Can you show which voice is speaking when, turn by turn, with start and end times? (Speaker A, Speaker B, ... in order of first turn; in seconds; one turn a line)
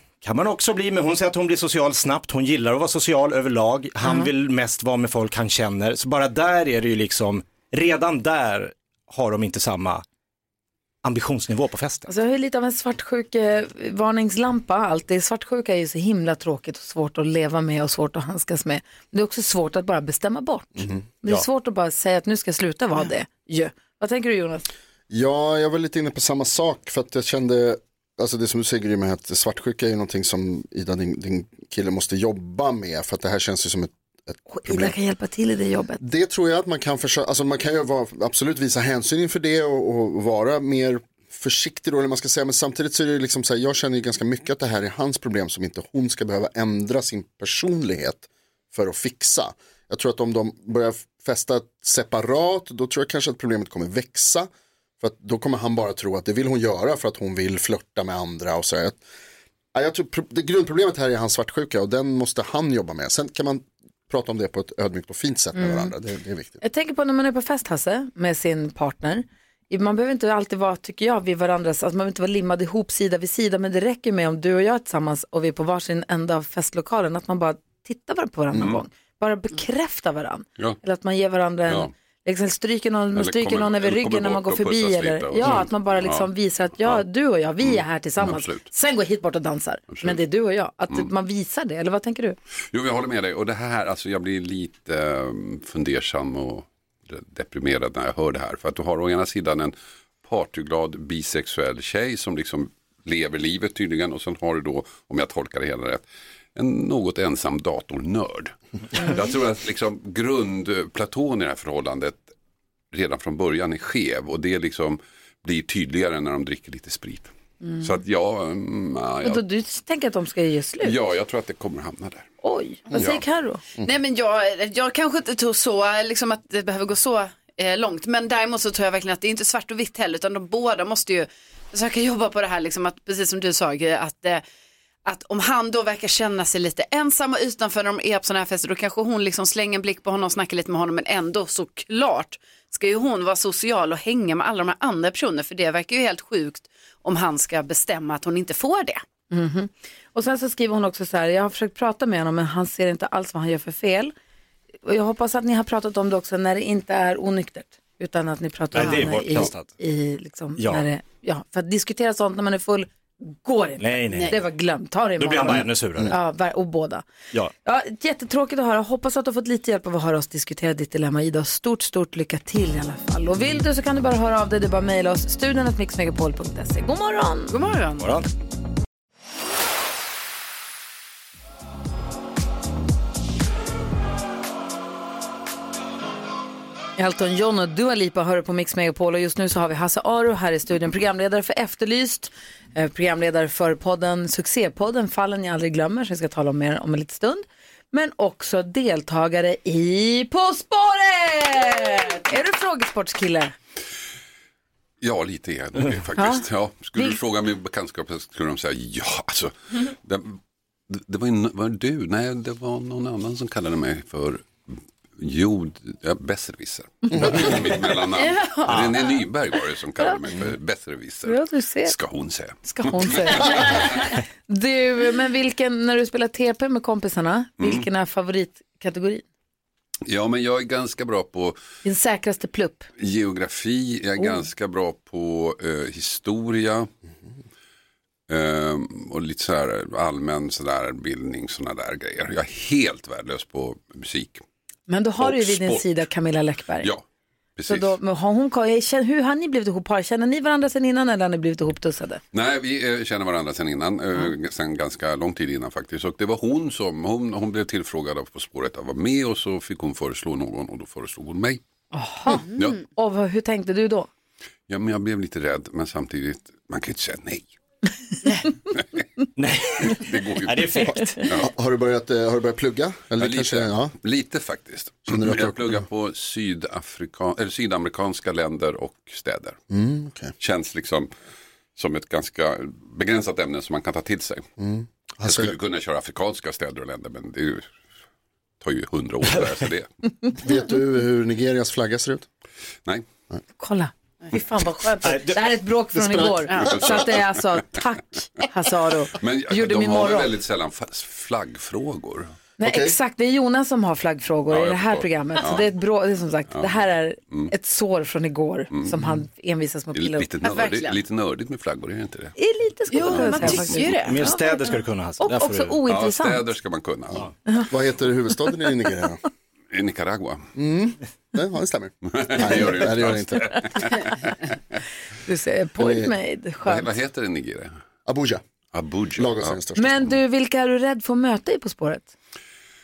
Speaker A: 0.2-10.0
Speaker B: 4.0-4.3
Speaker A: 11.0-12.1
Speaker B: 12.1-24.7
Speaker C: 25.1-34.9
Speaker B: 34.5-36.0
Speaker C: 36.0-54.5
Speaker C: 55.0-59.0
Speaker C: 59.7-66.6
Speaker B: 65.5-65.9
Speaker B: 66.6-92.4
Speaker D: 78.5-78.8
Speaker D: 83.1-86.3
Speaker D: 87.6-88.6
Speaker D: 89.9-90.2
Speaker D: 92.7-112.3
Speaker D: 112.9-119.4
Speaker B: 119.2-120.9
Speaker D: 120.8-122.3
Speaker B: 122.4-123.6
Speaker D: 122.9-123.2
Speaker E: 123.8-134.4
Speaker E: 135.0-149.0
Speaker B: 149.3-154.1
Speaker B: 154.8-167.1
Speaker A: 158.7-159.7
Speaker A: 160.6-160.9
Speaker A: 163.8-164.3
Speaker E: 164.1-164.4
Speaker A: 165.2-166.2
Speaker B: 167.6-177.5
Speaker E: 177.5-178.1
Speaker A: 178.0-178.3
Speaker B: 187.0-203.5
Speaker D: 205.0-210.4
Speaker B: 206.2-206.4
Speaker D: 210.9-214.5
Speaker D: 215.2-224.0
Speaker E: 218.1-219.2
Speaker B: 221.2-221.9
Speaker B: 222.6-229.2
Speaker D: 227.6-227.8
Speaker D: 230.1-231.6
Speaker B: 231.8-232.9
Speaker D: 233.0-236.9
Speaker D: 238.3-244.4
Speaker B: 244.9-246.9
Speaker D: 245.2-246.0
Speaker D: 247.6-247.9
Speaker B: 247.7-252.2
Speaker D: 252.3-261.6
Speaker B: 261.9-264.1
Speaker D: 262.6-262.8
Speaker D: 264.7-267.5
Speaker A: 269.4-271.2
Speaker D: 269.8-271.5
Speaker C: 271.2-273.9
Speaker D: 273.2-279.6
Speaker C: 275.1-275.8
Speaker C: 279.7-280.3
Speaker D: 280.4-281.1
Speaker D: 281.8-284.5
Speaker C: 284.6-285.5
Speaker D: 285.2-287.7
Speaker D: 288.6-289.9
Speaker C: 290.4-292.3
Speaker B: 293.6-300.3
Speaker A: 295.0-295.5
Speaker C: 296.0-296.9
Speaker D: 296.6-297.4
Speaker D: 299.1-302.3
Speaker B: 302.6-310.3
Speaker C: 302.6-302.9
Speaker D: 304.5-305.6
Speaker D: 308.7-309.1
Speaker D: 309.9-312.4
Speaker E: 310.4-311.0
Speaker B: 312.4-316.5
Speaker E: 312.9-314.2
Speaker D: 313.0-313.7
Speaker A: 314.0-315.8
Speaker D: 315.9-317.3
Speaker C: 317.7-319.2
Speaker D: 319.7-320.5
Speaker C: 320.6-323.7
Speaker D: 322.1-324.3
Speaker B: 325.2-326.9
Speaker C: 325.8-326.1
Speaker D: 326.6-327.7
Speaker C: 328.1-328.4
Speaker D: 328.7-329.6
Speaker C: 329.1-330.1
Speaker B: 329.8-332.1